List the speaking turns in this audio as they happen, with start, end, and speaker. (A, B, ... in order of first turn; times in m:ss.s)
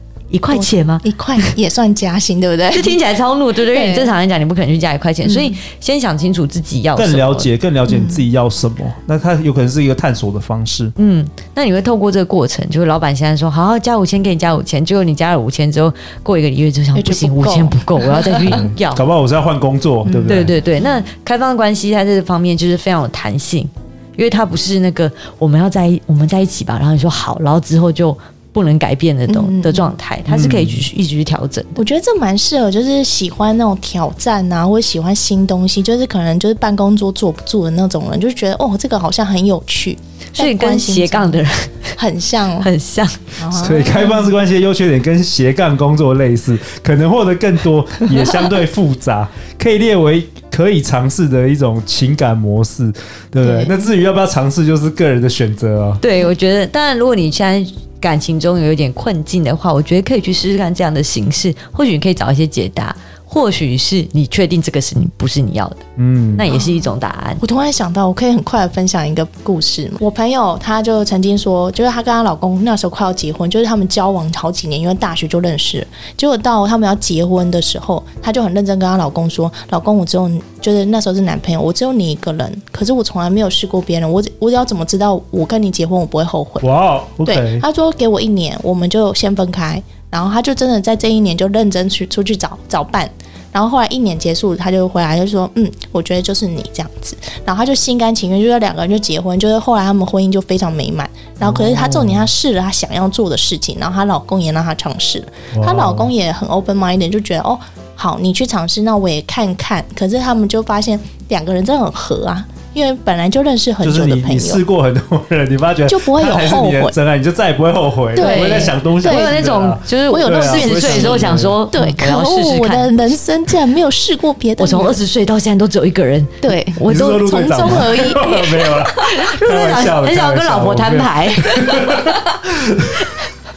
0:00.3-0:01.5 A
0:00.5-0:03.0 B
0:02.7-0:07.5 A
0:03.7-0:04.1 B
0:05.2-0:05.6 B
0:07.0-0:10.9 C
0:07.9-0:08.2 B
0:11.0-0:19.0 A
0:16.9-0:18.7 B
0:18.5-0:20.6 C
0:20.0-0:20.9 B
0:20.3-0:31.8 A
0:29.3-0:29.9 B
0:30.3-0:30.8 C
0:31.8-0:41.4 B
0:40.3-0:42.0 A
0:42.0-0:42.7 B
0:42.6-0:43.3 A
0:43.4-0:44.4 B
0:43.5-0:56.0 C
0:53.4-0:53.9 B
0:56.0-1:05.8 A
1:06.0-1:06.5 C
1:06.4-1:07.4 A
1:06.5-1:06.9 B
1:07.4-1:26.6 B
1:26.6-1:27.6 C
1:27.2-1:54.6 B
1:41.4-1:42.3 C
1:45.5-1:46.1 C
1:53.8-2:01.6 C
1:55.9-1:57.0 B
1:58.1-1:59.5 B
1:58.2-2:02.9 A
2:00.1-2:05.0 B
2:04.6-2:08.3 A
2:06.4-2:08.9 B
2:06.9-2:13.0 C
2:09.0-2:12.2 A